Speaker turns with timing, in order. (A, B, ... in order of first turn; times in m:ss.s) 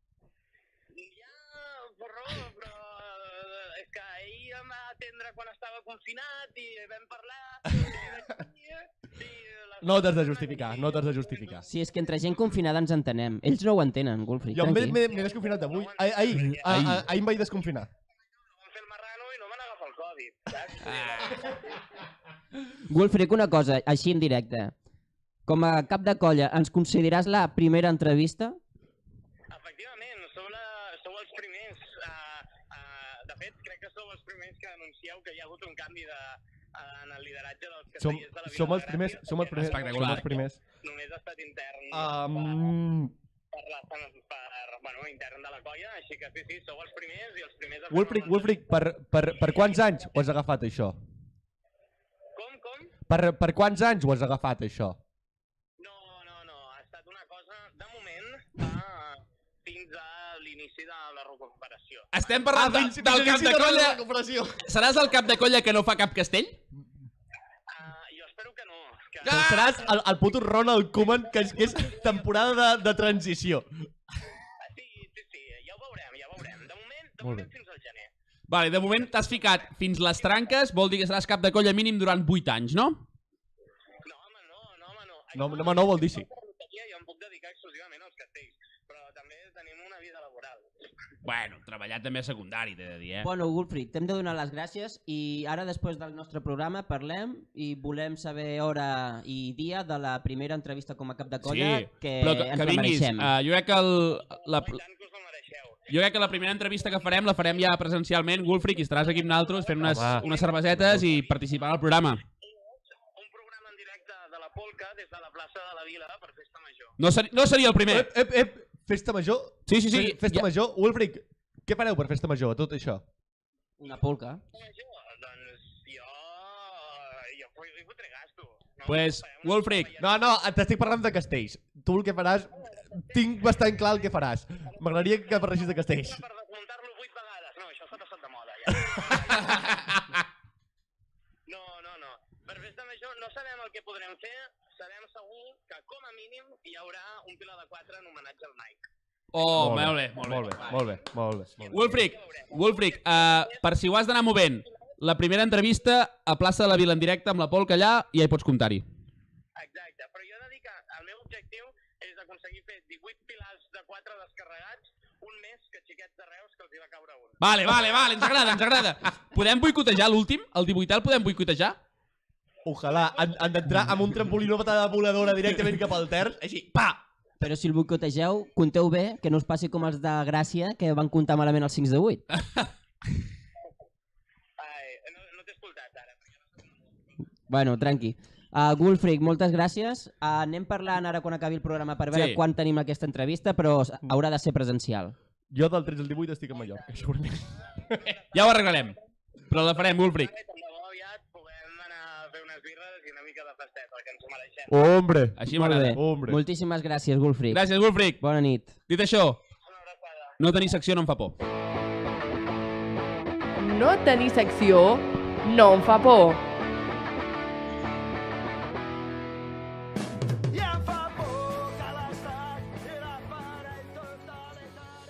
0:00.9-0:11.6 A
0:09.8-0:11.6 B
0:11.7-0:15.0 C
0:14.5-0:17.9 B
0:15.1-0:17.0 A
0:16.3-0:17.0 D
0:18.5-0:21.6 A
0:20.8-0:21.4 D
0:22.8-0:24.7 C
0:25.4-0:28.6 C
0:29.5-0:40.3 A
0:38.0-0:40.6 B
0:39.6-0:40.3 D
0:40.8-0:42.6 A
0:41.9-0:43.1 B
0:43.5-0:48.6 A
0:47.9-0:51.0 B
0:49.5-0:49.8 A
0:52.3-0:52.9 A
0:53.1-0:55.0 B
0:55.8-1:02.1 A
1:02.1-1:04.0 D
1:02.5-1:04.6 B
1:04.6-1:06.6 D
1:07.7-1:09.6 A
1:09.2-1:09.8 D
1:09.2-1:13.7 B
1:14.6-1:18.1 A
1:17.2-1:17.5 B
1:18.5-1:23.0 D
1:24.0-1:30.7 A
1:25.3-1:26.3 B
1:31.2-1:33.3 D
1:33.2-1:43.3 C
1:41.4-1:44.8 D
1:44.3-1:45.9 A
1:45.9-1:52.2 D
1:49.1-1:51.4 A
1:49.8-1:50.3 B
1:52.4-1:56.9 A
1:57.0-1:58.1 D
1:57.9-2:03.0 B
1:59.7-2:00.5 D
2:03.8-2:04.4 C
2:04.5-2:10.1 A
2:08.8-2:09.9 D
2:10.0-2:16.2 B
2:14.8-2:19.8 A
2:18.9-2:20.2 B
2:21.5-2:28.8 A
2:29.3-2:30.8 D
2:29.5-2:31.9 B
2:30.7-2:30.9 A
2:31.7-2:38.8 D
2:31.7-2:33.6 A
2:39.6-2:47.4 A
2:47.4-2:51.8 D
2:52.6-2:57.0 B
2:53.0-2:53.4 A
2:57.4-3:02.2 C
3:04.6-3:06.4 A
3:07.5-3:15.1 C
3:12.1-3:12.4 D
3:15.5-3:18.2 B
3:18.0-3:18.9 A
3:18.3-3:19.0 D
3:19.5-3:20.3 D
3:19.7-3:24.7 A
3:24.7-3:26.4 B
3:25.4-3:26.0 D
3:25.5-3:27.6 C
3:27.5-3:28.2 D
3:28.2-3:28.7 C
3:28.9-3:29.4 D
3:29.6-3:30.4 A
3:30.4-3:31.4 D
3:33.6-3:36.4 E
3:40.6-3:43.6 B